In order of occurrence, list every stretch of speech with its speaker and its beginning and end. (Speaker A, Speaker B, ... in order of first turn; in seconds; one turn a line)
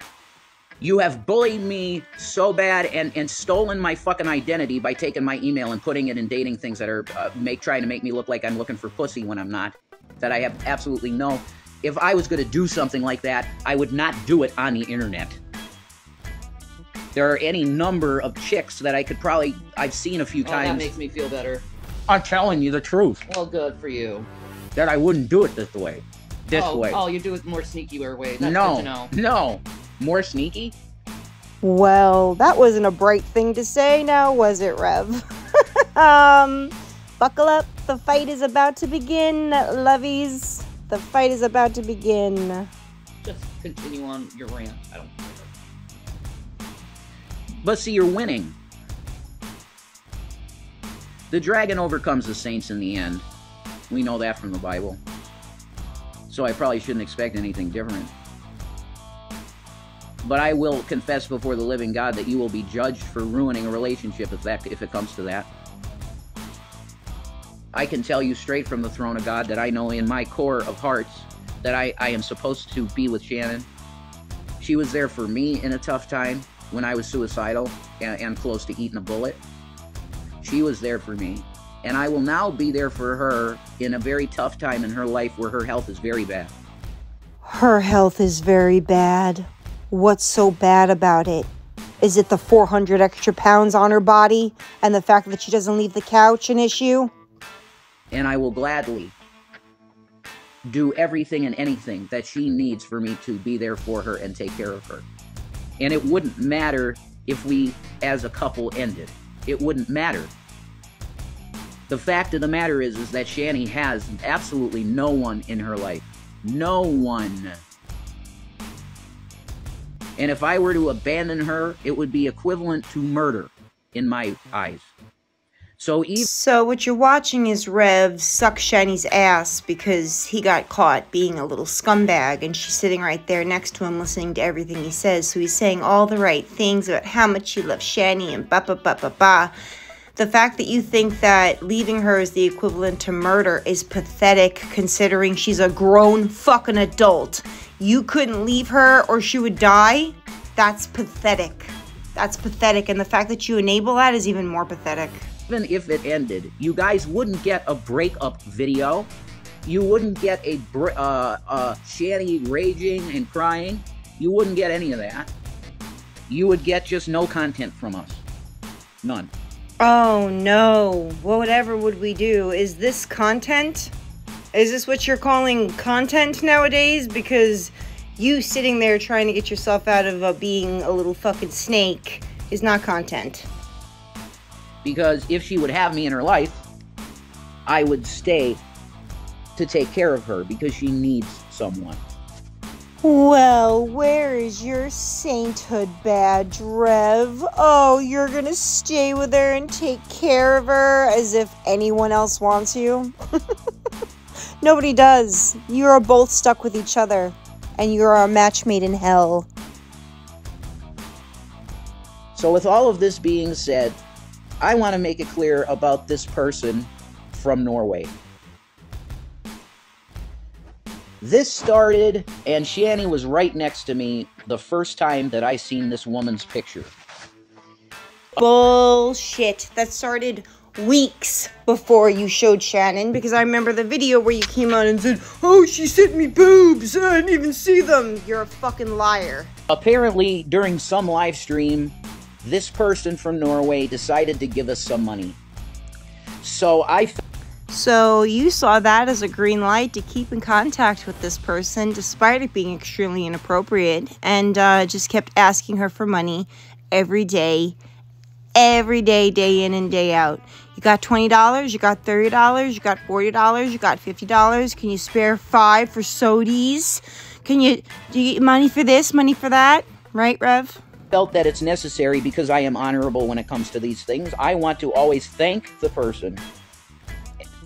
Speaker A: 0.8-15.4
Speaker A: 17.1-20.9
Speaker B: 20.4-21.6
Speaker A: 22.1-23.2
Speaker B: 23.3-24.3
Speaker A: 24.8-27.0
Speaker B: 26.5-29.1
Speaker A: 28.4-30.8
Speaker C: 31.6-42.7
Speaker B: 43.2-45.5
Speaker A: 47.6-48.6
Speaker A: 51.3-53.2
Speaker A: 53.9-55.0
Speaker A: 56.3-58.1
Speaker A: 60.2-65.5
Speaker A: 67.7-73.7
Speaker A: 74.6-79.4
Speaker A: 80.4-86.5
Speaker C: 87.4-97.1
Speaker A: 98.1-99.1
Speaker A: 100.6-105.1
Speaker A: 105.8-110.3
Speaker A: 111.9-117.6
Speaker A: 120.2-124.9
Speaker A: 125.8-126.3
Speaker C: 126.2-139.5
Speaker C: 140.2-155.2
Speaker A: 155.5-159.1
Speaker A: 159.6-165.3
Speaker A: 166.3-168.2
Speaker A: 169.0-169.3
Speaker C: 169.8-173.9
Speaker C: 174.5-183.4
Speaker A: 184.8-186.6
Speaker A: 187.7-188.6
Speaker A: 189.6-192.0
Speaker C: 193.0-203.1
Speaker C: 204.6-209.5
Speaker A: 212.3-214.0
Speaker A: 214.6-218.1
Speaker A: 221.2-226.9
Speaker C: 228.4-239.5
Speaker A: 239.7-245.4
Speaker A: 246.4-247.2
Speaker C: 247.7-257.8
Speaker C: 258.6-270.8
Speaker A: 271.1-276.4